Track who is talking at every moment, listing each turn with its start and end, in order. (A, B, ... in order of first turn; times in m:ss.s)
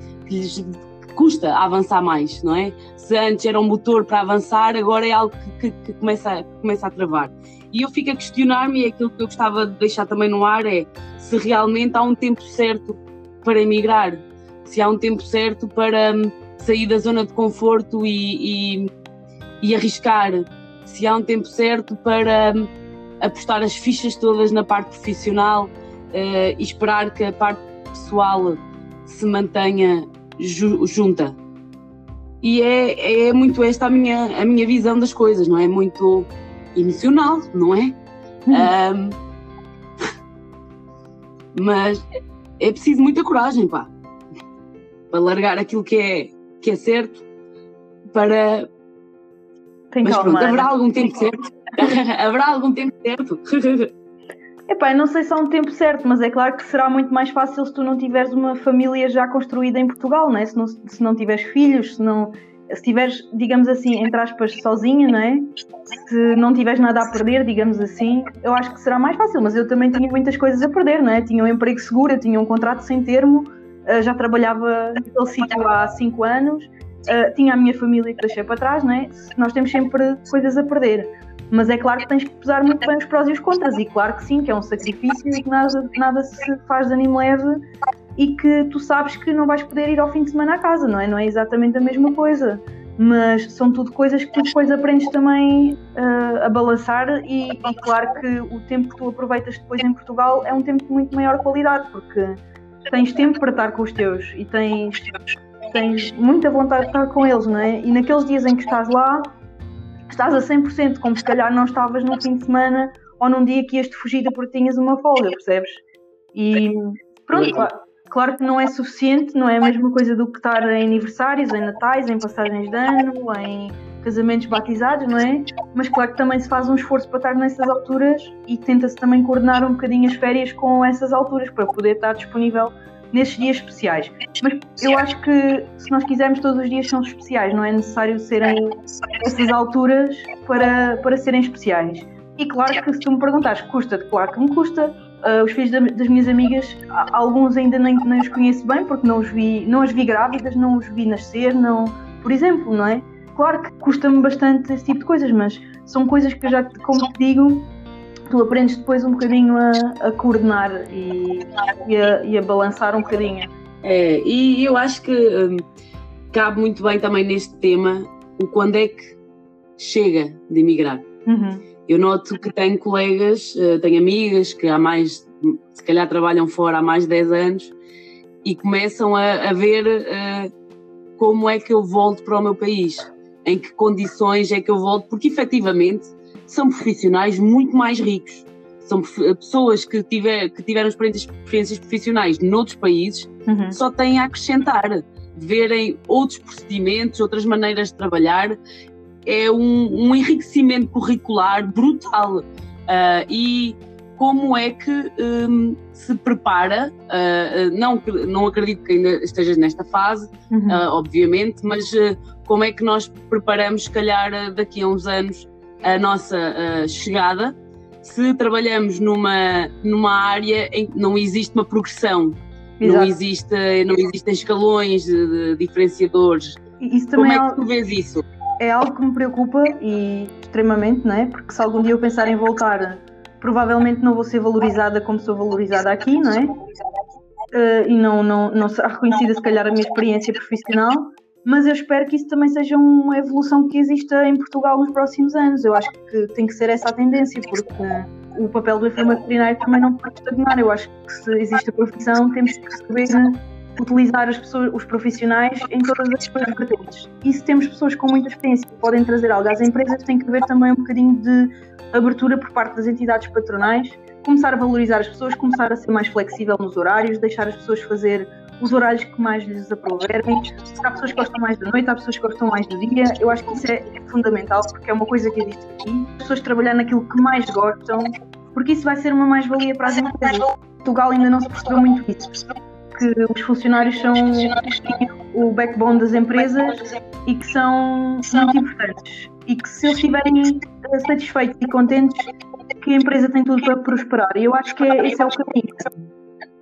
0:00.2-0:18.9 A
0:19.6-0:22.7 A
0:23.2-0:31.4 A
0:32.4-0:38.0 A
0:38.5-0:39.2 A
0:41.5-0:42.0 A
0:42.6-0:43.9 A
0:45.1-0:47.2 A
0:48.1-0:48.7 A
0:49.9-0:50.7 B
0:50.0-0:53.9 A
0:54.7-1:05.4 B
1:06.0-1:27.6 B
1:28.2-1:42.4 B
1:42.9-1:45.1 B
1:45.7-1:49.3 B
1:50.1-1:55.8 B
1:56.3-2:37.7 B
2:38.3-2:43.5 B
2:43.8-2:45.6 A
2:46.3-2:49.2 A
2:49.8-2:51.0 A
2:51.2-2:51.6 B
2:51.9-2:57.7 A
2:58.4-3:00.5 A
3:01.2-3:18.6 A
3:13.5-3:13.8 B
3:19.2-3:46.6 A
3:30.5-3:30.8 B
3:42.8-3:43.1 B
3:46.8-3:47.6 B
3:47.2-3:48.2 A
3:48.6-3:56.5 B
3:57.5-4:42.3 B
4:42.9-4:55.9 B